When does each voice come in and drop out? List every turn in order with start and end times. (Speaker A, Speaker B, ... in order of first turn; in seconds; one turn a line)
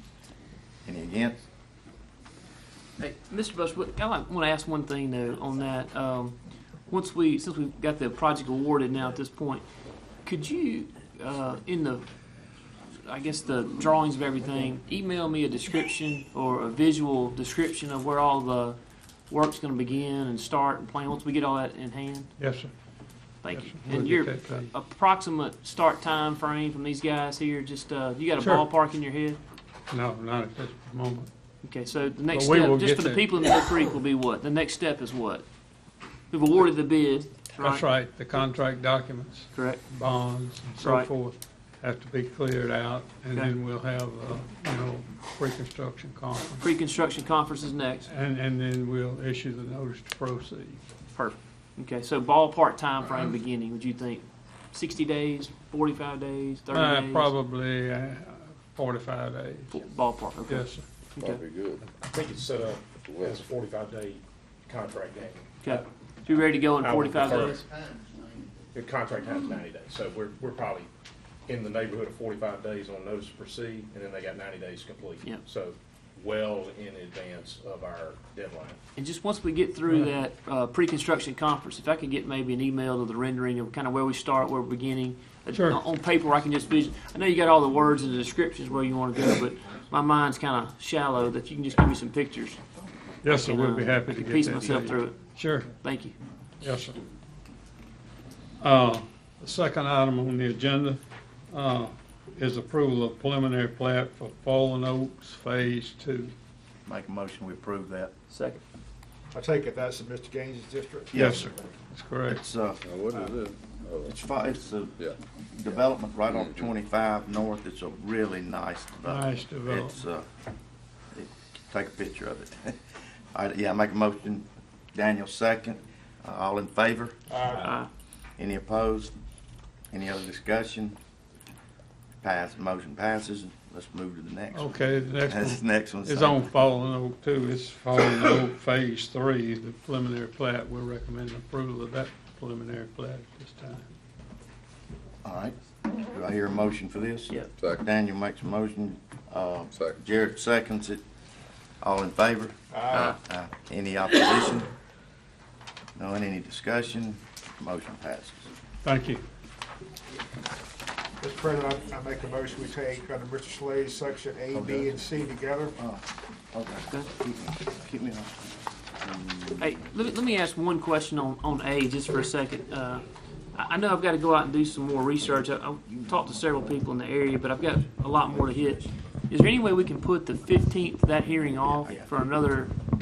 Speaker A: 0.8-1.4
Speaker B: 3.0-6.3
Speaker B: 6.9-9.6
Speaker B: 10.2-12.0
Speaker B: 13.0-18.8
Speaker B: 19.3-22.3
Speaker C: 22.4-22.7
Speaker B: 23.4-29.4
Speaker C: 23.5-24.7
Speaker C: 28.4-28.7
Speaker C: 29.9-31.3
Speaker B: 31.6-35.4
Speaker C: 32.3-33.2
Speaker B: 36.3-37.8
Speaker C: 37.6-46.6
Speaker B: 39.5-39.8
Speaker B: 40.8-41.1
Speaker B: 46.6-48.1
Speaker C: 48.0-50.8
Speaker B: 51.1-57.3
Speaker C: 56.7-59.8
Speaker B: 59.7-61.4
Speaker C: 60.5-60.8
Speaker D: 61.2-61.8
Speaker E: 62.0-65.8
Speaker D: 63.0-63.4
Speaker B: 65.6-67.6
Speaker E: 66.8-67.6
Speaker E: 68.7-70.9
Speaker E: 71.5-78.8
Speaker B: 79.0-92.6
Speaker C: 85.5-85.8
Speaker C: 93.2-95.7
Speaker B: 93.3-95.2
Speaker B: 95.8-96.1
Speaker C: 96.6-97.0
Speaker C: 98.6-106.3
Speaker A: 106.8-108.1
Speaker B: 108.3-108.6
Speaker F: 109.3-111.1
Speaker A: 111.1-111.5
Speaker C: 111.1-112.4
Speaker A: 112.2-112.8
Speaker D: 112.8-114.2
Speaker A: 114.0-115.0
Speaker A: 115.5-120.2
Speaker D: 116.3-116.7
Speaker C: 119.1-120.0
Speaker A: 121.1-122.8
Speaker A: 123.3-127.2
Speaker F: 127.3-127.7
Speaker B: 127.5-127.9
Speaker A: 128.4-129.1
Speaker A: 129.9-131.0
Speaker A: 132.2-134.7
Speaker C: 134.5-143.9
Speaker A: 135.3-136.5
Speaker A: 145.2-145.6
Speaker A: 146.1-151.0
Speaker D: 147.6-147.9
Speaker D: 149.7-150.0
Speaker A: 151.8-154.7
Speaker F: 152.7-153.1
Speaker A: 155.9-158.5
Speaker C: 158.8-159.2
Speaker F: 161.2-165.7
Speaker A: 164.5-165.0
Speaker A: 165.8-168.4
Speaker B: 169.6-182.7